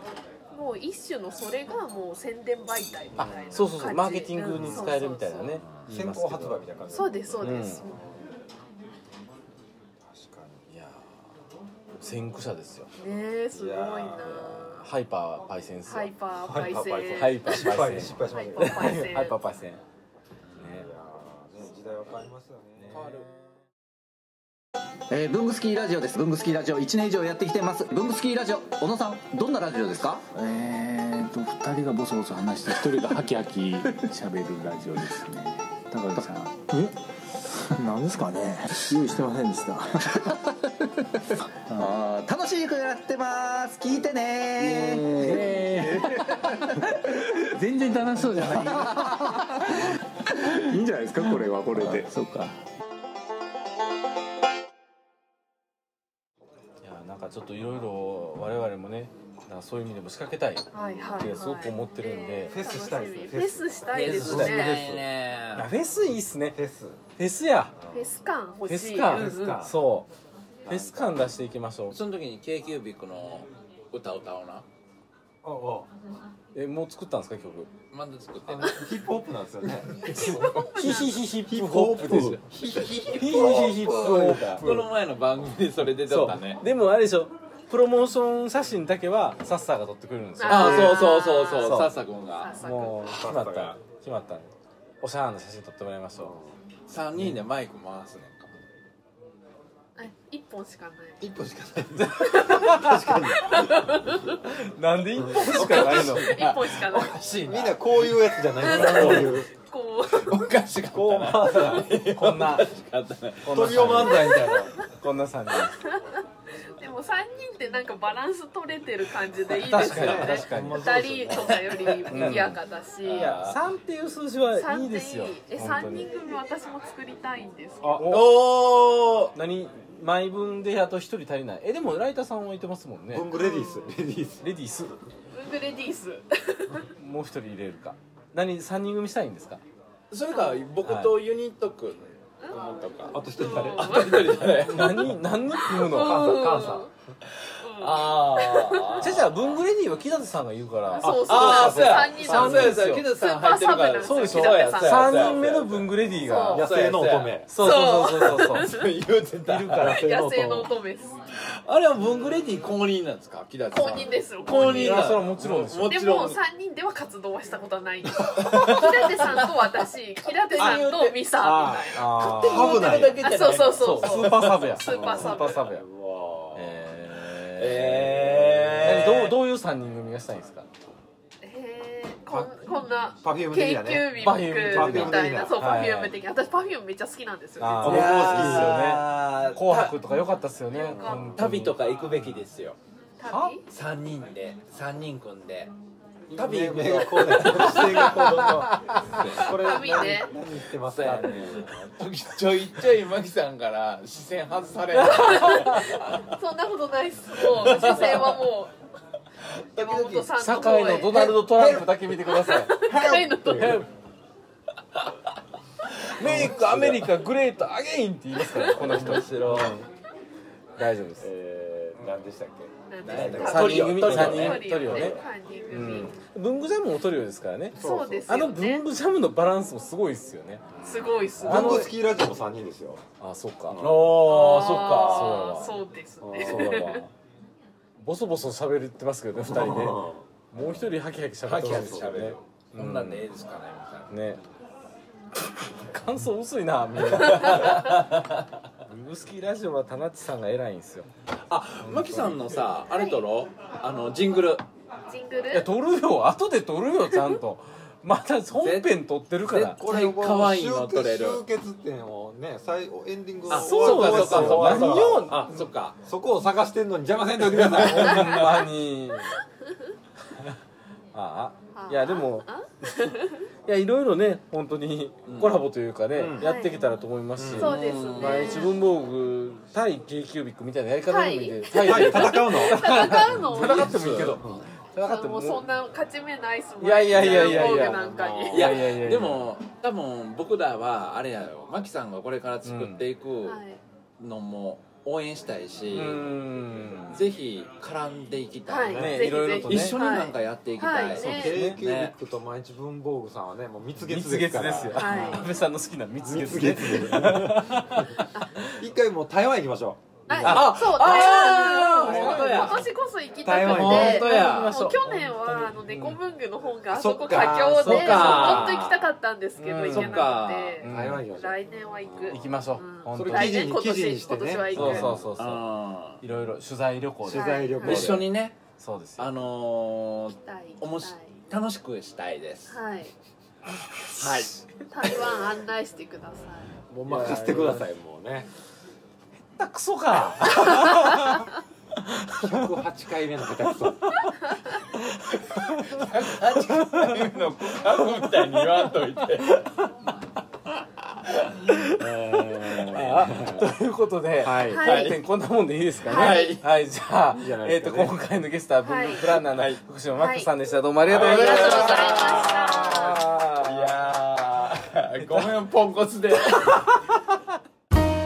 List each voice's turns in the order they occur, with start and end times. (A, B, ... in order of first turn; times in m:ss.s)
0:00.5-0:05.6 A
0:03.2-0:06.7 B
0:03.2-0:03.5 C
0:04.5-0:04.9 C
0:05.9-0:08.2 C
0:06.9-0:08.0 A
0:07.4-0:07.8 B
0:10.1-0:10.6 C
0:10.7-0:11.1 B
0:12.0-0:12.9 B
0:13.0-0:14.9 A
0:13.5-0:14.3 C
0:14.2-0:16.1 B
0:15.9-0:19.4 A
0:16.4-0:18.9 C
0:17.2-0:19.8 B
0:20.6-0:23.2 C
0:20.6-0:20.9 B
0:22.9-0:23.3 D
0:25.1-0:30.3 E
0:30.3-0:40.2 F
0:41.7-0:42.0 F
0:41.8-0:46.6 E
0:44.6-0:52.6 F
0:48.2-0:49.5 E
0:51.3-0:52.1 E
0:56.8-1:02.7 B
1:00.7-1:04.8 A
1:02.5-1:05.0 C
1:03.9-1:05.7 D
1:05.6-1:06.6 B
1:06.6-1:07.0 C
1:07.2-1:07.8 B
1:07.9-1:09.6 A
1:08.7-1:10.1 B
1:09.1-1:09.8 C
1:10.7-1:12.0 B
1:10.7-1:11.1 C
1:11.9-1:14.7 D
1:15.4-1:15.9 C
1:16.5-1:17.7 B
1:17.9-1:18.8 D
1:18.5-1:24.7 C
1:20.1-1:21.1 A
1:20.1-1:24.9 B
1:22.6-1:23.2 D
1:24.6-1:26.6 D
1:26.1-1:31.9 B
1:30.4-1:33.0 A
1:30.4-1:32.6 D
1:32.6-1:34.5 B
1:33.0-1:33.8 C
1:35.0-1:36.4 B
1:36.2-1:36.5 C
1:36.9-1:38.6 D
1:40.0-1:41.2 A
1:41.2-1:43.9 C
1:42.0-1:43.4 B
1:42.2-1:42.8 A
1:43.4-1:44.3 A
1:44.3-1:46.4 B
1:45.2-1:45.4 C
1:45.4-1:49.4 D
1:45.7-1:47.2 A
1:47.4-1:49.5 C
1:48.6-1:50.5 A
1:50.1-1:54.0 D
1:50.9-1:52.0 C
1:52.1-1:52.7 B
1:53.4-1:54.3 B
1:53.5-1:54.8 C
1:54.0-1:54.9 A
1:55.0-1:55.8 B
1:55.6-1:56.2 A
1:56.8-2:03.3 A
1:59.5-2:01.0 B
1:59.8-2:01.7 C
2:01.6-2:02.4 D
2:02.1-2:02.6 B
2:03.0-2:03.6 D
2:03.1-2:06.1 B
2:04.5-2:08.1 A
2:07.8-2:08.1 C
2:07.9-2:08.4 B
2:08.1-2:09.4 D
2:09.3-2:13.3 B
2:13.1-2:14.5 C
2:13.3-2:14.0 A
2:14.4-2:15.0 B
2:15.3-2:16.9 A
2:17.0-2:19.6 B
2:20.1-2:25.2 D
2:20.3-2:20.7 A
2:20.8-2:21.2 B
2:22.4-2:24.5 A
2:22.6-2:25.1 C
2:24.6-2:26.6 B
2:25.6-2:26.9 A
2:25.8-2:27.2 C
2:27.3-2:29.4 D
2:27.6-2:29.2 A
2:29.0-2:33.1 B
2:30.9-2:35.4 A
2:31.0-2:36.0 D
2:31.0-2:32.2 C
2:34.0-2:36.7 B
2:36.2-2:36.7 A
2:36.5-2:37.5 C
2:36.5-2:37.4 D
2:37.5-2:38.7 B
2:37.6-2:38.9 A
2:38.2-2:40.0 D
2:39.4-2:40.7 B
2:39.8-2:40.6 C
2:39.8-2:41.2 A
2:41.4-2:46.4 D
2:43.7-2:45.2 A
2:44.6-2:46.0 B
2:45.9-2:55.7 A
2:48.3-2:49.4 D
2:50.6-2:54.6 D
2:50.6-2:53.5 C
2:51.9-2:52.8 B
2:53.6-2:55.8 B
2:54.8-2:56.9 C
2:56.5-3:00.7 B
2:57.6-2:59.4 D
3:01.4-3:08.1 A
3:02.3-3:05.7 C
3:04.2-3:06.2 B
3:07.6-3:12.4 B
3:07.8-3:08.9 C
3:07.8-3:10.0 D
3:10.7-3:11.4 A
3:10.9-3:11.4 C
3:11.4-3:12.8 D
3:13.2-3:13.6 A
3:13.2-3:13.6 B
3:13.7-3:15.7 D
3:16.3-3:22.0 C
3:16.3-3:26.3 D
3:19.6-3:20.3 A
3:25.0-3:25.8 B
3:25.0-3:28.7 A
3:27.4-3:28.4 D
3:29.6-3:30.5 D
3:29.8-3:31.4 A
3:30.4-3:33.9 B
3:31.0-3:32.0 D
3:32.3-3:33.8 A
3:32.9-3:33.8 C
3:36.0-3:37.1 D
3:36.2-3:39.9 B
3:38.5-3:39.2 A
3:38.7-3:39.8 D
3:39.0-3:39.7 C
3:40.8-3:41.3 B
3:41.2-3:45.2 C
3:42.9-3:46.2 A
3:43.0-3:45.0 D
3:43.3-3:45.2 B
3:45.7-3:50.7 B
3:47.7-3:48.5 C
3:47.8-3:48.8 A
3:50.8-3:51.9 A
3:51.4-3:52.0 B
3:51.4-3:53.0 C
3:53.2-3:53.9 B
3:53.7-3:54.0 C
3:53.8-3:55.4 D
3:54.2-3:57.1 A
3:54.9-3:55.8 B
3:56.2-3:57.0 C
3:56.4-3:57.1 B
3:58.0-4:03.2 B
3:59.4-4:00.2 C
4:01.4-4:04.3 D
4:01.6-4:02.3 C
4:04.1-4:04.4 B
4:05.6-4:08.0 B
4:07.1-4:08.4 D
4:08.9-4:11.1 B
4:11.5-4:14.6 D
4:11.8-4:12.4 B
4:12.9-4:13.2 A
4:15.1-4:15.7 A
4:15.5-4:19.8 B
4:18.5-4:21.4 D
4:19.8-4:28.6 C
4:23.5-4:26.0 D
4:23.5-4:25.5 B
4:27.5-4:28.3 D
4:27.7-4:29.4 B
4:29.1-4:29.4 A
4:31.1-4:33.1 B
4:31.8-4:33.4 A
4:33.7-4:45.6 B
4:35.3-4:35.6 D
4:36.2-4:36.5 C
4:36.4-4:36.9 A
4:37.4-4:37.7 C
4:37.6-4:38.6 D
4:37.6-4:38.8 A
4:41.1-4:44.0 A
4:41.8-4:44.6 C
4:43.5-4:44.4 D
4:45.0-4:48.8 A
4:46.8-4:49.6 B
4:47.1-4:47.9 D
4:48.0-4:48.5 C
4:48.5-4:53.6 D
4:52.6-4:53.1 B
4:53.4-4:53.8 A
4:54.2-4:56.3 D
4:55.9-4:57.3 B
4:57.1-5:02.2 D
4:58.7-5:01.6 A
4:58.9-4:59.2 C
4:58.9-5:00.0 B
5:01.0-5:05.5 C
5:01.2-5:01.8 B
5:04.0-5:08.3 B
5:04.9-5:05.5 A
5:06.2-5:10.7 C
5:08.3-5:08.7 A
5:10.3-5:25.3 A
5:10.4-5:12.8 D
5:10.4-5:12.7 B
5:12.1-5:12.6 C
5:13.4-5:14.3 C
5:13.6-5:15.0 D
5:13.6-5:16.2 B
5:16.9-5:19.1 D
5:17.3-5:18.8 B
5:19.6-5:21.3 B
5:19.9-5:20.8 D
5:20.8-5:22.4 C
5:22.3-5:23.8 B
5:23.1-5:25.3 C
5:24.7-5:25.6 B
5:25.4-5:26.2 D
5:26.2-5:28.1 B
5:27.2-5:28.3 C
5:27.3-5:28.1 A
5:27.8-5:28.6 D
5:28.8-5:29.4 B
5:29.2-5:32.8 D
5:30.4-5:31.4 A
5:32.7-5:33.1 A
5:34.1-5:34.6 D
5:34.2-5:34.5 B
5:34.9-5:36.7 A
5:36.9-5:38.5 C
5:37.0-5:37.9 B
5:39.6-5:41.4 B
5:40.6-5:41.4 A
5:42.0-5:42.8 B
5:42.4-5:44.2 C
5:44.3-5:44.8 A
5:45.0-5:48.9 B
5:45.9-5:49.8 D
5:51.2-5:51.6 D
5:51.9-5:53.7 C
5:52.6-6:03.9 B
5:52.8-5:53.3 D
5:54.4-5:55.0 C
5:54.7-5:55.2 A
5:54.8-5:55.2 D
5:56.1-5:56.6 A
5:56.1-5:56.6 D
5:57.4-5:58.1 C
5:58.8-5:59.3 A
5:59.4-5:59.8 D
6:00.2-6:00.5 A
6:01.1-6:02.5 D
6:01.1-6:03.2 A
6:03.6-6:06.9 D